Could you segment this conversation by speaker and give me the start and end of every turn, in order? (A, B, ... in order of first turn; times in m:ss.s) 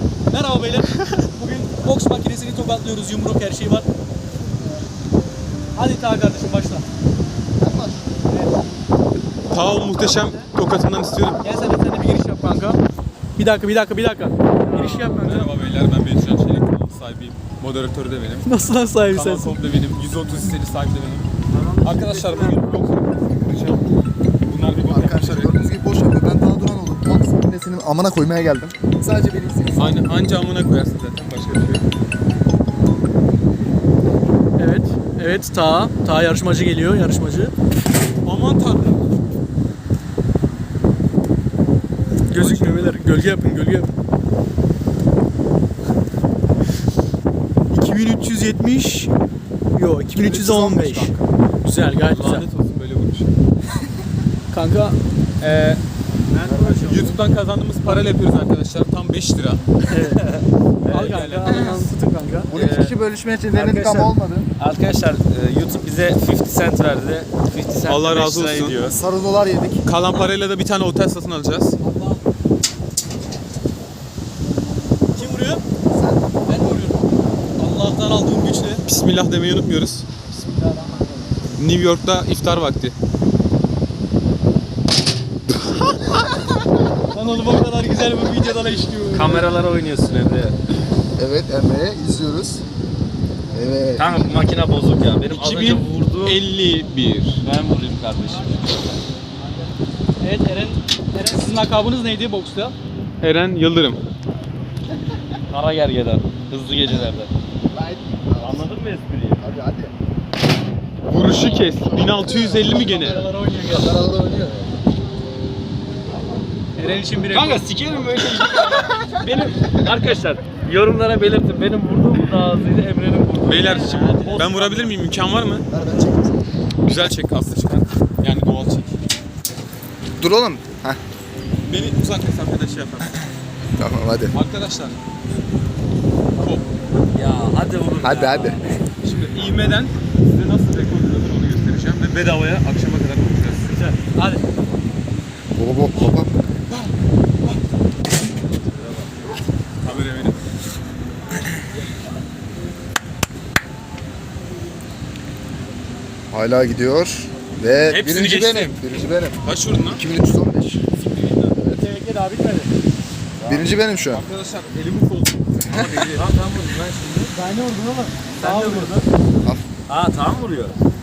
0:00.3-0:03.9 A
0:05.8-0:06.8 A
0:07.6-0:08.2 B
0:09.5-0:11.4 C
0:11.4-0:12.8 A
0:13.4-0:15.5 A
0:14.6-0:15.0 D
0:14.8-0:18.5 C
0:18.4-0:19.6 A
0:19.1-0:21.3 C
0:21.5-0:22.8 D
0:21.8-0:23.9 C
0:24.5-0:25.6 C
0:24.8-0:30.0 B
0:29.8-0:31.8 C
0:34.6-0:37.5 A
0:38.2-0:39.0 C
0:42.3-0:43.9 A
0:42.3-0:43.0 C
0:47.7-0:49.1 A
0:49.7-0:52.5 A
0:50.1-0:51.3 C
0:52.0-0:53.3 C
0:54.5-0:55.0 A
0:55.4-0:55.8 C
0:56.3-0:56.9 D
0:56.4-0:57.1 A
0:56.8-0:59.6 C
0:57.9-0:58.2 A
0:59.9-1:00.2 A
1:00.0-1:01.6 D
1:00.9-1:02.5 A
1:00.9-1:01.7 C
1:01.5-1:01.8 B
1:02.5-1:04.5 B
1:02.5-1:03.0 D
1:03.5-1:09.0 D
1:07.8-1:08.8 C
1:08.9-1:09.9 B
1:09.8-1:11.8 C
1:11.8-1:12.2 A
1:15.2-1:15.6 A
1:15.9-1:16.2 B
1:16.4-1:17.0 A
1:17.6-1:18.8 A
1:18.8-1:20.1 C
1:20.3-1:21.4 A
1:21.6-1:23.0 C
1:27.1-1:29.5 A
1:29.1-1:30.6 D
1:31.2-1:32.6 B
1:33.5-1:34.5 B
1:34.0-1:36.4 D
1:35.3-1:37.4 C
1:37.4-1:38.7 D
1:40.2-1:42.8 A
1:43.2-1:44.0 C
1:45.5-1:47.3 D
1:47.7-1:48.7 B
1:48.4-1:49.4 D
1:49.4-1:49.9 B
1:51.0-1:53.3 C
1:52.5-1:53.9 A
1:53.7-1:54.6 B
1:56.8-1:57.6 A
1:57.3-2:03.9 D
2:03.4-2:05.7 C
2:03.6-2:05.0 A
2:05.7-2:06.4 B
2:06.8-2:09.0 C
2:10.2-2:11.0 B
2:11.7-2:13.3 C
2:13.8-2:14.4 B
2:14.3-2:15.0 C
2:16.4-2:16.7 C
2:17.1-2:18.8 D
2:18.0-2:18.6 B
2:19.0-2:23.7 C
2:23.7-2:24.4 A
2:25.6-2:26.4 B
2:28.6-2:29.1 D
2:29.8-2:30.4 C
2:36.3-2:40.8 B
2:37.9-2:38.8 C
2:39.4-2:40.0 C
2:40.9-2:41.6 C
2:41.8-2:42.7 A
2:43.4-2:43.7 D
2:43.5-2:44.2 B
2:44.1-2:46.3 C
2:45.6-2:45.9 B
2:46.1-2:47.3 D
2:47.3-2:49.1 A
2:48.4-2:49.1 D
2:49.9-2:50.8 D